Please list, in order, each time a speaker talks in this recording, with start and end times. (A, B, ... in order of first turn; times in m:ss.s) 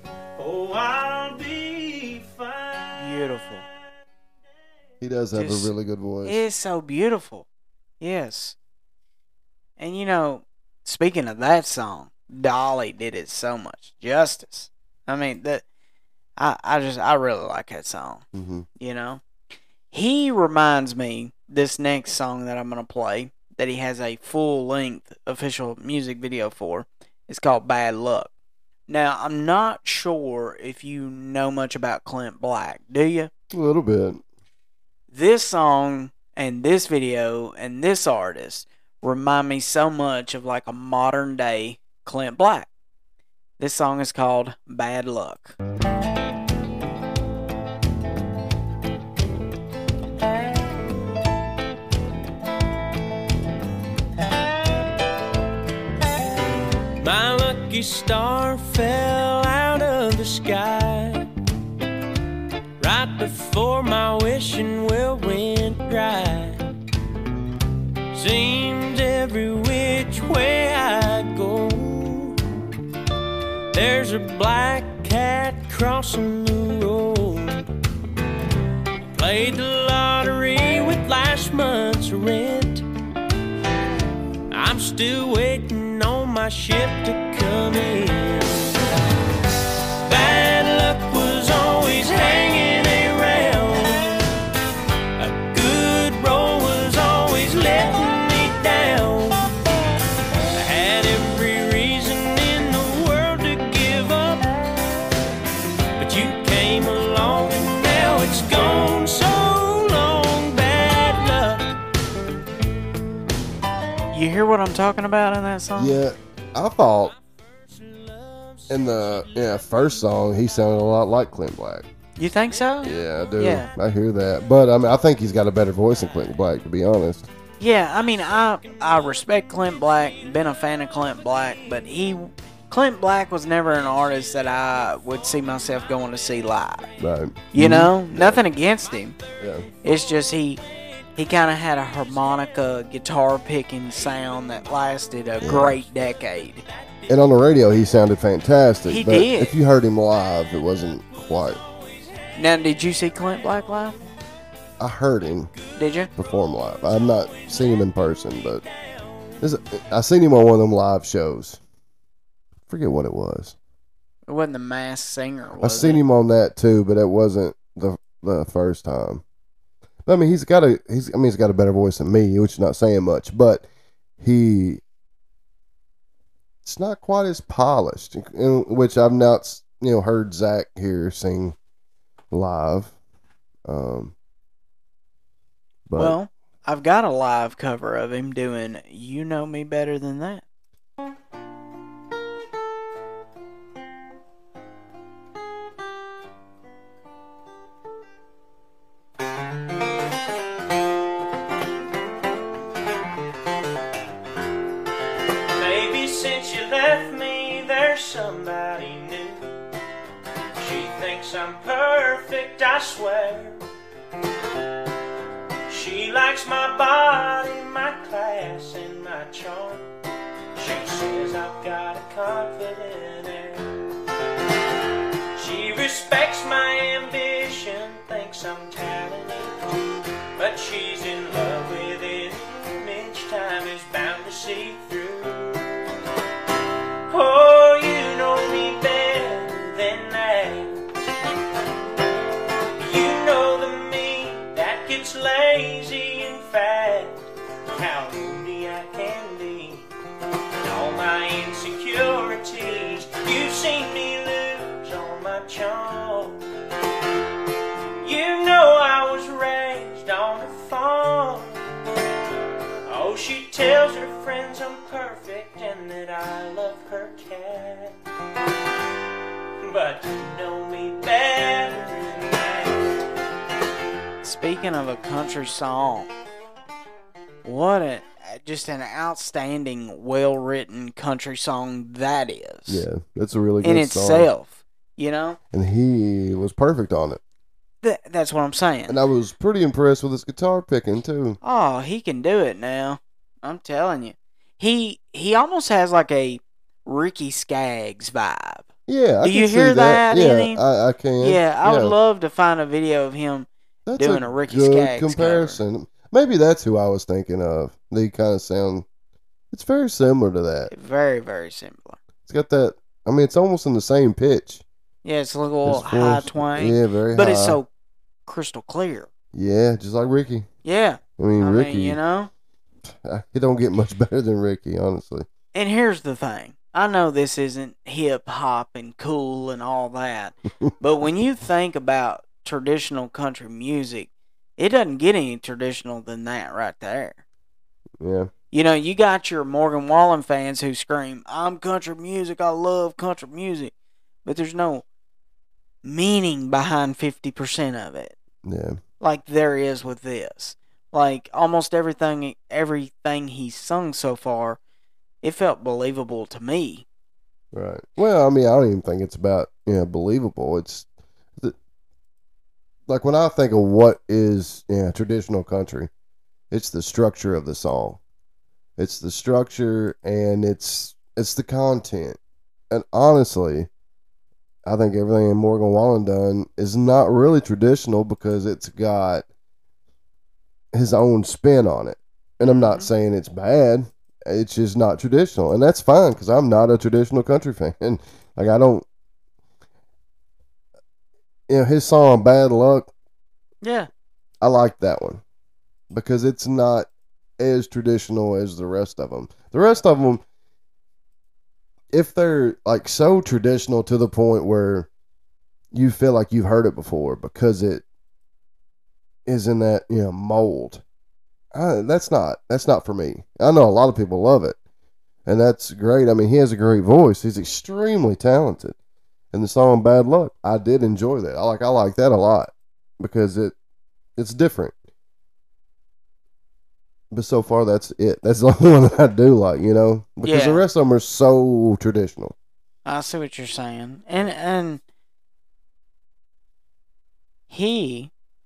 0:00.4-0:03.7 A
0:03.0-0:03.6 B
0:05.0-0:06.4 C
0:05.3-0:05.7 B
0:06.2-0:07.5 B
0:08.0-0:08.6 B
0:09.8-0:15.6 B
0:16.4-0:18.2 B
0:18.3-0:18.7 C
0:18.8-0:19.2 B
0:19.9-0:28.3 B
0:28.9-0:33.3 B
0:33.5-0:34.2 C
0:35.1-0:42.7 B
0:43.6-0:45.6 B
0:57.0-1:01.3 A
1:02.8-1:06.6 A
1:08.1-1:12.4 A
1:13.7-1:17.7 A
1:19.1-1:22.8 A
1:24.5-1:28.8 A
1:30.0-1:34.3 A
1:35.2-1:39.6 A
1:40.5-1:44.5 A
1:46.0-1:51.8 A
1:54.1-1:56.0 B
1:55.8-1:57.1 C
1:57.0-1:59.7 A
1:58.7-2:01.9 C
2:02.2-2:03.7 B
2:02.8-2:07.3 C
2:07.6-2:16.9 B
2:17.0-2:18.4 C
2:17.5-2:19.2 B
2:19.4-2:19.7 C
2:19.8-2:20.6 B
2:21.2-2:26.6 B
2:25.4-2:25.8 C
2:27.1-2:31.6 C
2:28.9-2:29.5 B
2:31.3-2:32.4 A
2:32.4-2:34.0 B
2:34.8-2:35.5 C
2:35.8-2:36.1 B
2:36.2-2:38.6 C
2:37.1-2:37.6 A
2:38.6-2:39.4 A
2:39.4-2:41.6 C
2:42.7-2:43.6 C
2:44.3-2:46.0 B
2:45.6-2:49.2 C
2:50.1-2:53.6 C
2:54.2-2:54.8 C
2:56.6-3:01.6 C
3:02.3-3:02.9 C
3:03.7-3:04.1 C
3:05.9-3:06.2 C
3:06.0-3:10.4 B
3:25.5-3:29.6 A
3:30.6-3:33.6 A
3:35.7-3:39.9 A
3:40.6-3:43.8 A
3:45.4-3:55.8 A
3:57.1-4:00.8 A
4:02.8-4:09.9 A
4:10.6-4:16.4 A
4:18.0-4:21.6 A
4:22.9-4:28.0 A
4:29.6-4:33.0 A
4:34.2-4:36.1 B
4:37.4-4:42.9 B
4:42.7-4:44.3 C
4:43.6-4:45.4 B
4:45.5-4:47.2 C
4:47.8-4:49.0 B
4:48.9-4:51.4 C
4:51.4-4:58.7 B
4:58.9-5:02.0 C
4:59.2-5:00.6 B
5:01.2-5:05.6 B
5:03.9-5:08.9 C
5:09.5-5:10.7 C
5:10.7-5:12.0 B
5:12.3-5:14.6 C
5:15.0-5:17.7 B
5:15.6-5:17.6 C
5:18.3-5:19.1 B
5:19.3-5:20.5 C
5:20.6-5:22.3 B
5:21.2-5:22.0 C
5:22.9-5:25.3 C
5:25.5-5:37.2 B
5:38.0-5:38.3 C
5:38.5-5:43.7 B
5:44.2-5:44.8 B
5:45.8-5:48.2 B
5:48.4-5:48.8 C
5:49.0-5:54.6 B
5:55.2-5:56.8 B
5:57.5-6:00.9 C
6:02.9-6:05.9 C
6:06.5-6:08.0 C
6:08.8-6:12.2 C
6:12.7-6:13.7 C
6:14.6-6:19.3 C
6:20.7-6:28.9 C
6:22.5-6:22.9 B
6:31.5-6:32.9 C
6:33.6-6:33.9 B
6:34.4-6:35.2 C
6:35.9-6:36.9 C
6:37.4-6:40.2 C
6:41.9-6:44.9 C
6:45.7-6:47.8 C
6:49.3-6:50.8 C
6:51.5-6:54.6 C
6:55.3-6:58.8 C
6:59.3-7:03.6 C
7:04.2-7:04.7 C
7:07.1-7:12.4 C
7:10.2-7:10.6 B
7:12.8-7:14.8 B
7:17.5-7:18.1 B